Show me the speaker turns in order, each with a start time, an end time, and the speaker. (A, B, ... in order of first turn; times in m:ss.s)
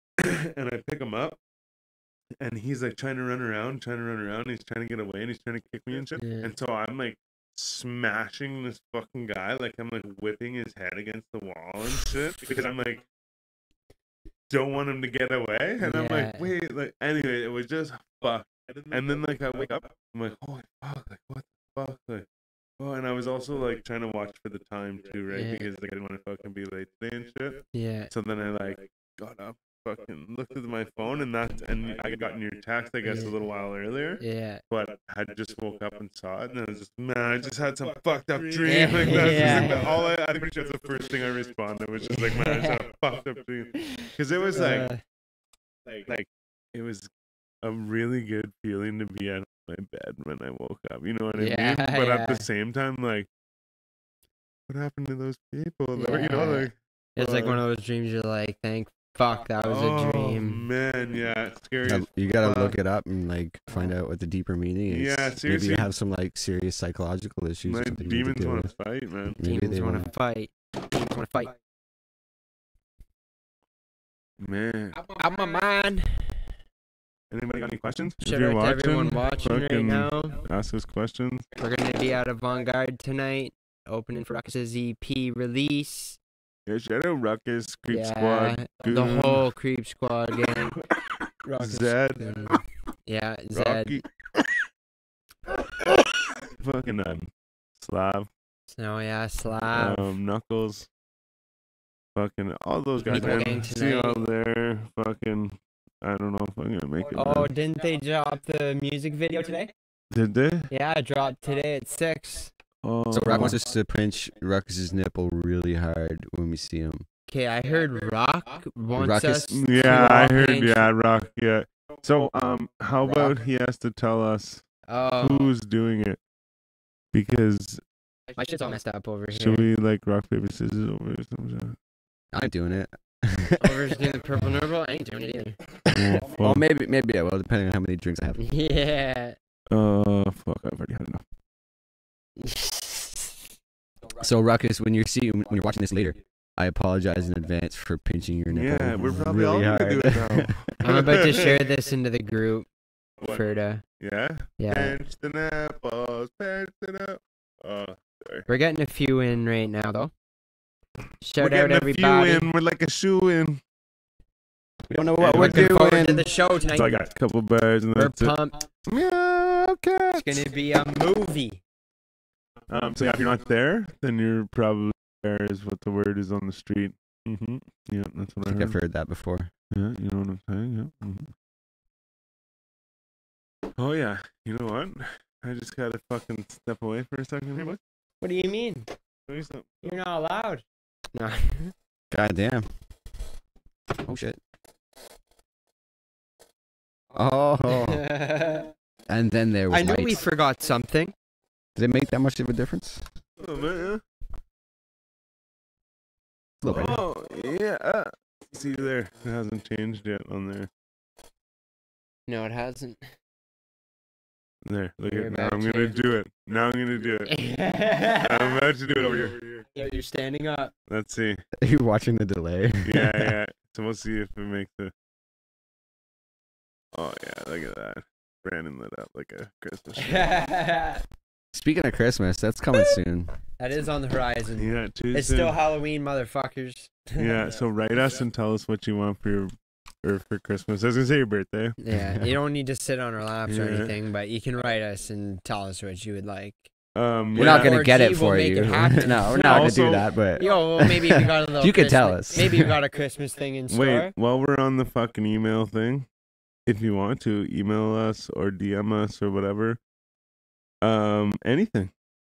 0:00.2-0:01.4 A
0:02.4-0:13.0 A
0:06.2-0:06.5 B
0:14.5-0:22.3 A
0:15.8-0:16.5 B
0:22.8-0:44.9 A
0:25.3-0:25.6 B
0:27.7-0:28.1 B
0:33.0-0:33.3 B
0:34.2-0:34.6 B
0:38.6-0:39.9 B
0:42.1-0:42.8 B
0:43.8-0:45.0 B
0:46.0-0:47.1 A
0:47.6-0:53.3 A
0:51.4-0:52.5 B
0:54.7-0:57.6 A
0:56.0-1:00.7 B
0:59.6-1:02.8 A
1:01.8-1:08.7 C
1:04.9-1:05.9 A
1:07.6-1:09.4 A
1:09.4-1:10.1 C
1:09.4-1:11.6 B
1:14.4-1:15.0 A
1:15.1-1:16.4 B
1:17.3-1:21.5 A
1:18.2-1:20.4 B
1:21.6-1:26.2 B
1:26.7-1:29.4 A
1:27.9-1:30.8 B
1:31.4-1:34.0 B
1:31.6-1:32.6 A
1:33.5-1:34.1 A
1:35.9-1:38.3 A
1:38.7-1:40.1 B
1:39.7-1:40.9 A
1:42.2-1:47.5 A
1:43.1-1:44.2 B
1:47.2-1:49.7 B
1:50.1-1:50.7 A
1:50.7-1:52.5 B
1:52.8-1:53.6 A
1:53.1-1:57.1 C
1:57.3-2:00.9 B
1:59.0-1:59.6 C
1:59.5-2:04.6 A
2:04.9-2:05.5 B
2:05.2-2:06.2 A
2:07.1-2:07.8 A
2:08.4-2:09.7 B
2:09.3-2:11.8 A
2:12.3-2:14.0 C
2:13.6-2:15.6 B
2:15.9-2:18.4 C
2:16.0-2:16.6 A
2:18.4-2:19.4 B
2:19.7-2:21.2 A
2:22.4-2:23.4 B
2:24.2-2:30.8 C
2:28.5-2:31.6 A
2:30.8-2:32.7 B
2:33.2-2:33.8 B
2:34.0-2:38.5 A
2:34.6-2:35.0 B
2:38.5-2:40.1 B
2:41.2-2:42.5 B
2:41.4-2:43.6 A
2:44.9-2:46.3 C
2:45.2-2:45.8 A
2:45.3-2:47.0 B
2:46.7-2:48.4 A
2:48.0-2:48.6 B
2:48.9-2:50.4 A
2:50.2-2:51.6 B
2:52.7-2:58.8 A
2:58.4-2:59.5 C
2:59.7-3:01.3 A
3:03.8-3:07.8 A
3:08.2-3:08.9 B
3:09.3-3:10.0 A
3:09.8-3:11.7 B
3:12.1-3:12.7 C
3:14.0-3:14.4 C
3:17.1-3:18.1 C
3:17.7-3:18.7 B
3:19.1-3:20.2 C
3:19.7-3:21.1 B
3:21.8-3:23.0 C
3:23.4-3:24.0 A
3:26.6-3:27.0 C
3:26.6-3:30.7 A
3:32.3-3:33.1 B
3:34.7-3:37.3 A
3:35.1-3:36.0 B
3:37.3-3:40.7 B
3:38.1-3:39.6 A
3:40.9-3:41.4 A
3:41.6-3:43.4 C
3:42.8-3:44.9 A
3:46.9-3:50.4 A
3:50.0-3:51.0 B
3:51.5-3:53.3 C
3:53.6-3:57.4 B
3:54.6-3:55.6 A
3:57.2-3:59.5 A
4:00.0-4:01.8 A
4:01.8-4:06.7 B
4:01.9-4:02.3 C
4:03.5-4:03.9 A
4:07.0-4:07.8 A
4:07.4-4:14.1 B
4:07.4-4:12.8 C
4:09.4-4:10.1 A
4:13.7-4:16.1 A
4:16.7-4:19.8 A
4:20.8-4:21.9 A